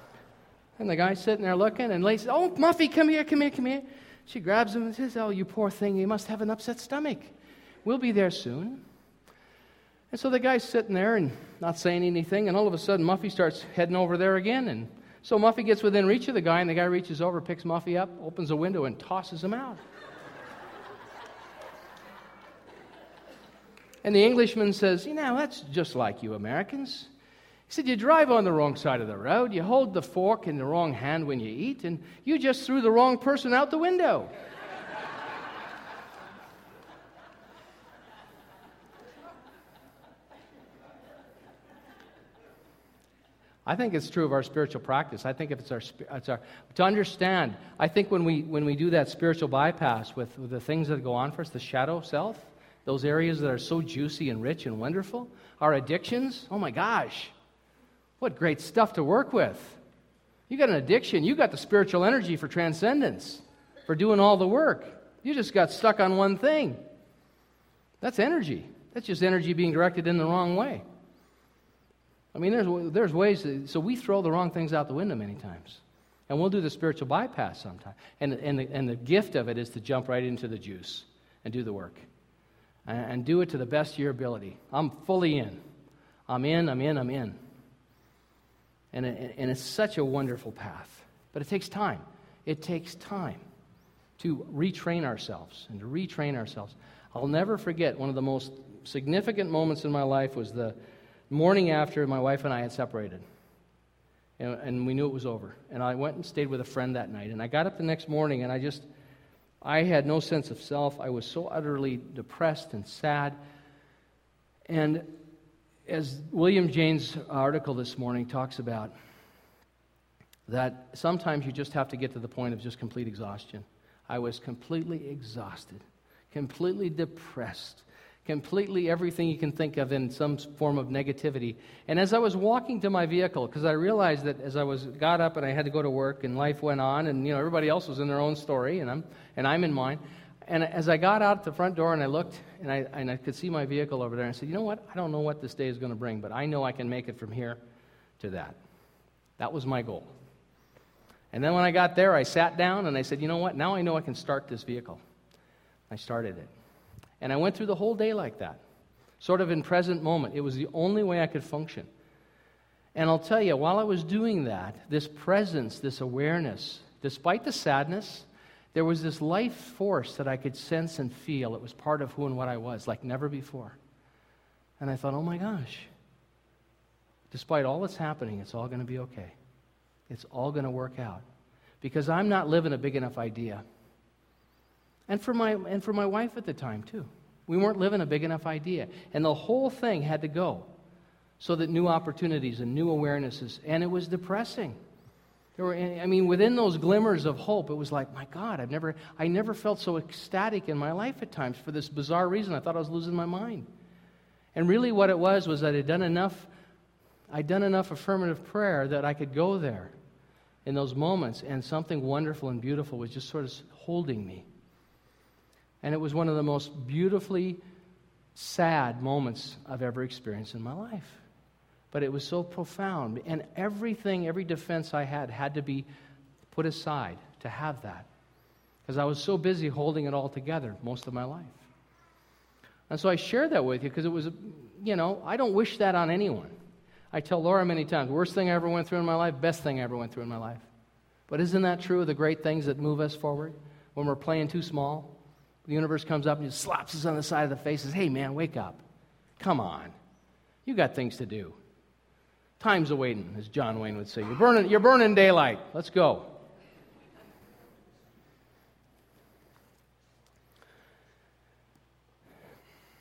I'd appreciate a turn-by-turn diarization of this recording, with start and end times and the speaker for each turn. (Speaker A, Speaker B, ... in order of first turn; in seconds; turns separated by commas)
Speaker A: 0.8-7.3, Speaker A: 7.8-8.8, Speaker A: 10.1-19.8, Speaker A: 24.0-27.1, Speaker A: 27.7-34.3, Speaker A: 43.6-57.3, Speaker A: 58.2-59.8, Speaker A: 60.5-66.8, Speaker A: 68.0-70.8, Speaker A: 72.3-82.0, Speaker A: 82.8-85.6, Speaker A: 86.3-87.4, Speaker A: 88.9-93.4, Speaker A: 94.2-100.8, Speaker A: 101.3-103.2, Speaker A: 104.4-108.9, Speaker A: 109.6-113.4, Speaker A: 114.7-115.1, Speaker A: 115.9-118.9, Speaker A: 120.5-147.6, Speaker A: 148.2-148.6, Speaker A: 149.4-150.1, Speaker A: 151.3-155.0, Speaker A: 155.9-156.5, Speaker A: 157.2-158.6, Speaker A: 159.2-161.9, Speaker A: 162.9-173.8, Speaker A: 174.8-175.9, Speaker A: 177.3-179.3, Speaker A: 180.1-181.2, Speaker A: 181.8-183.6, Speaker A: 185.1-190.7, Speaker A: 191.4-194.8, Speaker A: 195.6-203.7, Speaker A: 204.5-206.5, Speaker A: 207.3-209.9, Speaker A: 210.6-214.5, Speaker A: 215.8-217.6, Speaker A: 218.3-221.2, Speaker A: 221.9-225.9, Speaker A: 226.5-228.1, Speaker A: 228.8-231.6, Speaker A: 232.9-236.5, Speaker A: 237.1-240.7, Speaker A: 241.3-248.8, Speaker A: 249.4-249.9, Speaker A: 250.7-251.6, Speaker A: 252.6-256.4